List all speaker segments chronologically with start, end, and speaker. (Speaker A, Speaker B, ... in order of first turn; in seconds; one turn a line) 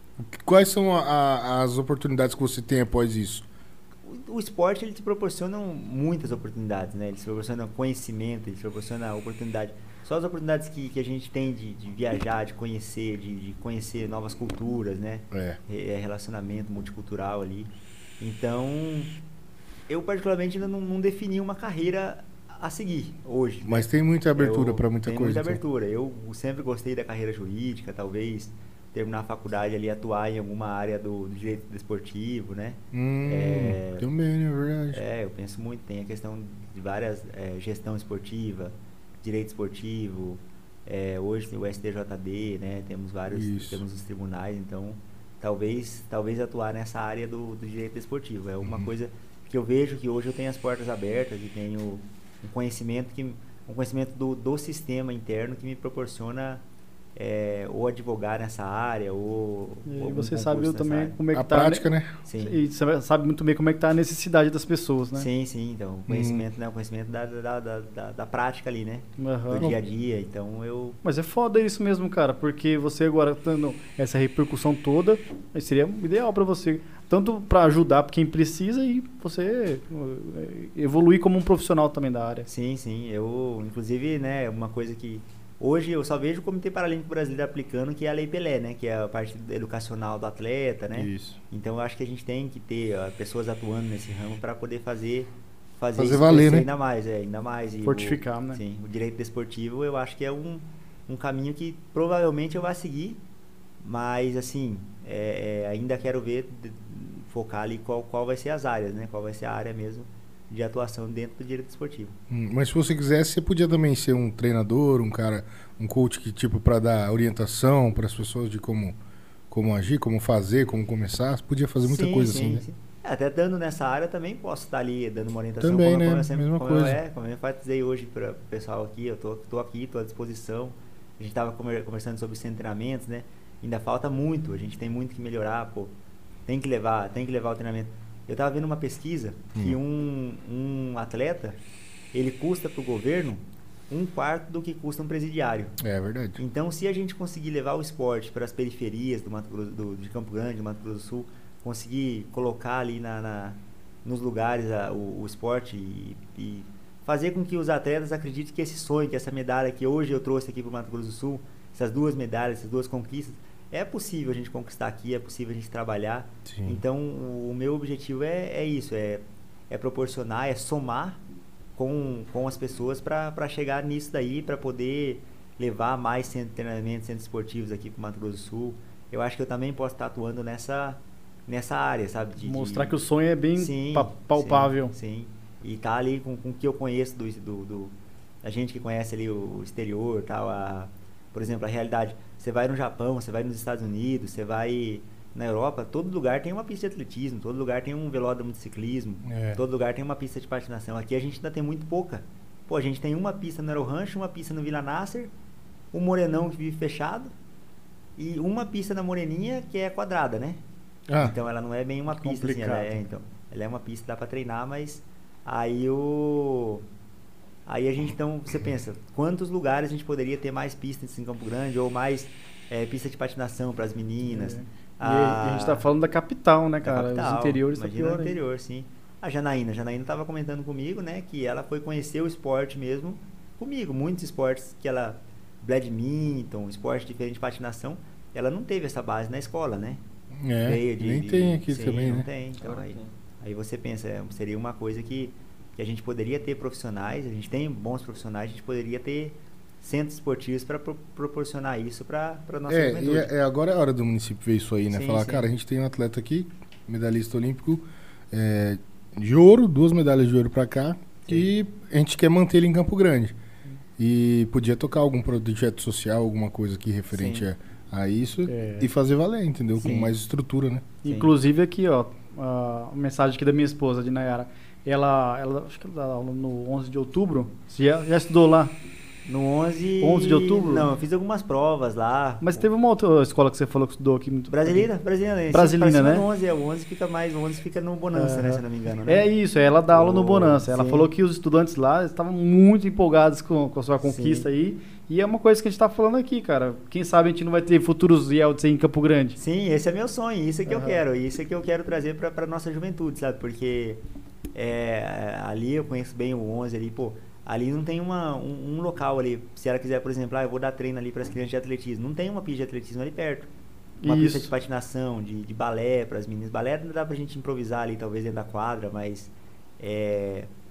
Speaker A: 0.3-3.5
Speaker B: 4.0-19.1
Speaker A: 15.3-15.6
Speaker B: 19.9-34.0
Speaker A: 23.6-25.6
Speaker A: 32.9-35.0
Speaker B: 34.9-56.6
Speaker A: 43.3-43.8
Speaker A: 48.6-48.9
Speaker B: 57.2-61.2
Speaker C: 59.9-65.3
Speaker A: 61.3-62.1
Speaker B: 62.2-62.6
Speaker B: 65.2-71.0
Speaker A: 66.1-66.4
Speaker C: 69.2-69.7
Speaker C: 71.0-82.5
Speaker B: 82.5-103.2
Speaker A: 90.9-91.4
Speaker A: 96.0-96.7
Speaker C: 97.8-98.6
Speaker B: 103.8-112.2
Speaker A: 112.3-119.0
Speaker A: 119.5-122.6
Speaker B: 121.8-135.9
Speaker A: 125.6-127.0
Speaker B: 136.5-141.6
Speaker B: 142.1-145.8
Speaker A: 145.8-146.4
Speaker B: 146.4-171.2
Speaker A: 166.5-166.8
Speaker B: 171.8-182.9
Speaker C: 182.4-184.9
Speaker B: 183.6-205.3
Speaker A: 199.3-199.6
Speaker B: 205.9-207.3
Speaker B: 208.2-210.6
Speaker A: 211.1-211.3
Speaker B: 211.2-216.8
Speaker C: 212.2-213.0
Speaker B: 217.7-225.9
Speaker C: 224.3-228.4
Speaker B: 226.8-240.0
Speaker A: 240.4-242.3
Speaker B: 240.6-253.3
Speaker A: 252.7-263.4
Speaker B: 254.9-255.5
Speaker A: 264.0-270.9
Speaker B: 267.1-267.5
Speaker C: 268.5-268.9
Speaker B: 269.8-270.1
Speaker C: 271.0-278.8
Speaker B: 271.1-271.3
Speaker B: 279.3-282.6
Speaker C: 280.0-280.9
Speaker C: 282.4-284.9
Speaker B: 284.5-289.3
Speaker C: 285.5-286.3
Speaker C: 288.1-299.4
Speaker B: 289.9-291.1
Speaker B: 294.0-294.5
Speaker B: 299.4-304.0
Speaker C: 300.7-301.0
Speaker B: 304.6-313.5
Speaker C: 314.0-314.5
Speaker B: 314.1-320.5